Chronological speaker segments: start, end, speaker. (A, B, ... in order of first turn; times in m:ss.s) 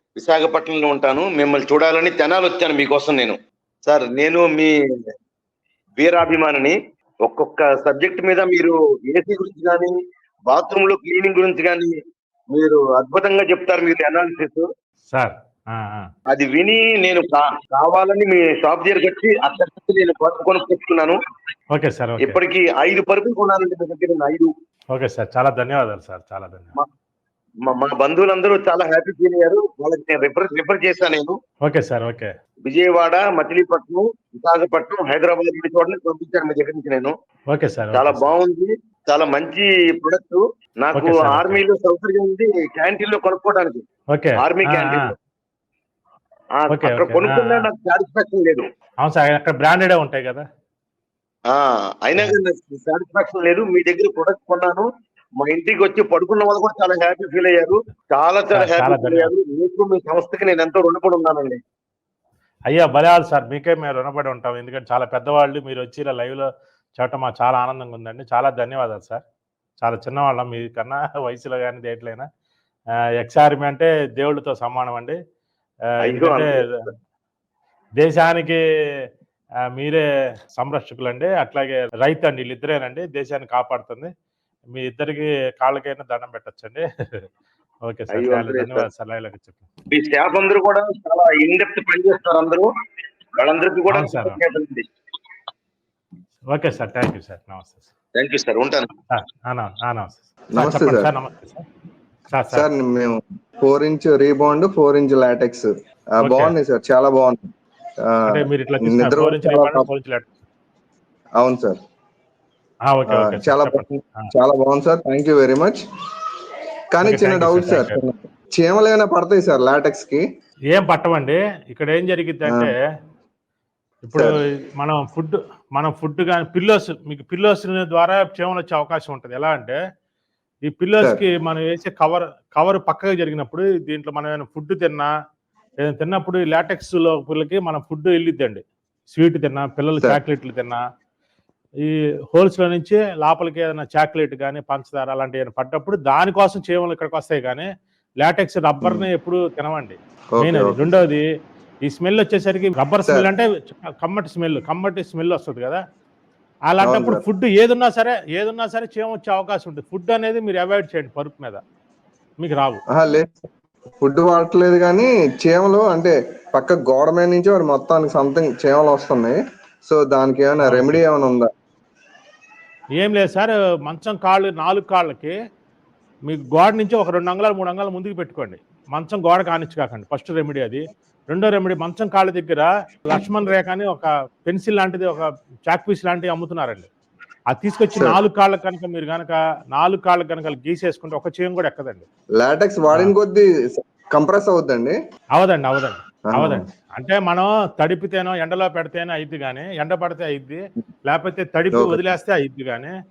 0:00.2-0:04.7 A
0:06.0-0:09.9 A
0:10.5-0:11.9 A
0:12.5-0:14.7 A
0:15.1-0:16.1 B
0:16.3-0:21.2 A
0:21.7-0:22.4 B
0:22.2-0:24.5 A
0:24.9-0:26.7 B
0:27.6-0:31.4 A
0:31.6-0:32.3 B
0:32.6-0:37.1 A
0:37.5-0:38.3 B
0:37.9-0:43.8 A
0:41.0-0:41.6 B
0:44.1-0:45.0 B
0:44.4-0:45.1 A
0:46.6-0:48.6 A
0:46.7-0:47.5 B
0:49.0-0:50.4 B
0:51.5-0:54.8 A
0:55.4-1:01.6 A
0:58.5-0:59.3 B
1:02.7-1:09.2 B
1:09.8-1:12.3 B
1:13.2-1:15.2 B
1:16.0-1:16.8 A
1:16.1-1:16.6 B
1:18.0-1:18.6 B
1:19.8-1:20.0 B
1:20.6-1:24.1 B
1:24.7-1:26.8 B
1:27.8-1:29.6 B
1:28.1-1:28.8 A
1:29.9-1:32.7 A
1:33.4-1:34.8 A
1:33.9-1:34.4 B
1:36.5-1:37.9 B
1:38.2-1:38.9 A
1:39.1-1:41.6 B
1:40.5-1:41.1 C
1:42.3-1:42.7 B
1:42.5-1:47.5 C
1:46.2-1:46.5 B
1:48.0-1:49.8 C
1:48.3-1:50.3 B
1:51.4-1:51.8 C
1:52.9-1:54.3 B
1:53.1-1:55.8 C
1:56.9-2:00.2 C
1:57.0-1:58.0 B
2:00.7-2:02.7 B
2:02.5-2:02.7 C
2:04.0-2:09.8 B
2:10.6-2:15.1 B
2:15.8-2:20.8 B
2:21.8-2:27.7 B
2:28.2-2:31.2 B
2:28.8-2:29.1 C
2:30.3-2:30.8 C
2:31.8-2:35.8 B
2:36.7-2:41.6 B
2:36.8-2:37.2 C
2:42.4-2:42.8 B
2:42.9-2:43.4 C
2:44.0-2:51.5 C
2:50.6-2:51.0 B
2:53.0-2:55.3 B
2:56.3-3:06.9 B
3:07.5-3:12.0 B
3:12.4-3:15.0 C
3:15.3-3:22.9 B
3:16.3-3:16.7 C
3:21.7-3:22.1 C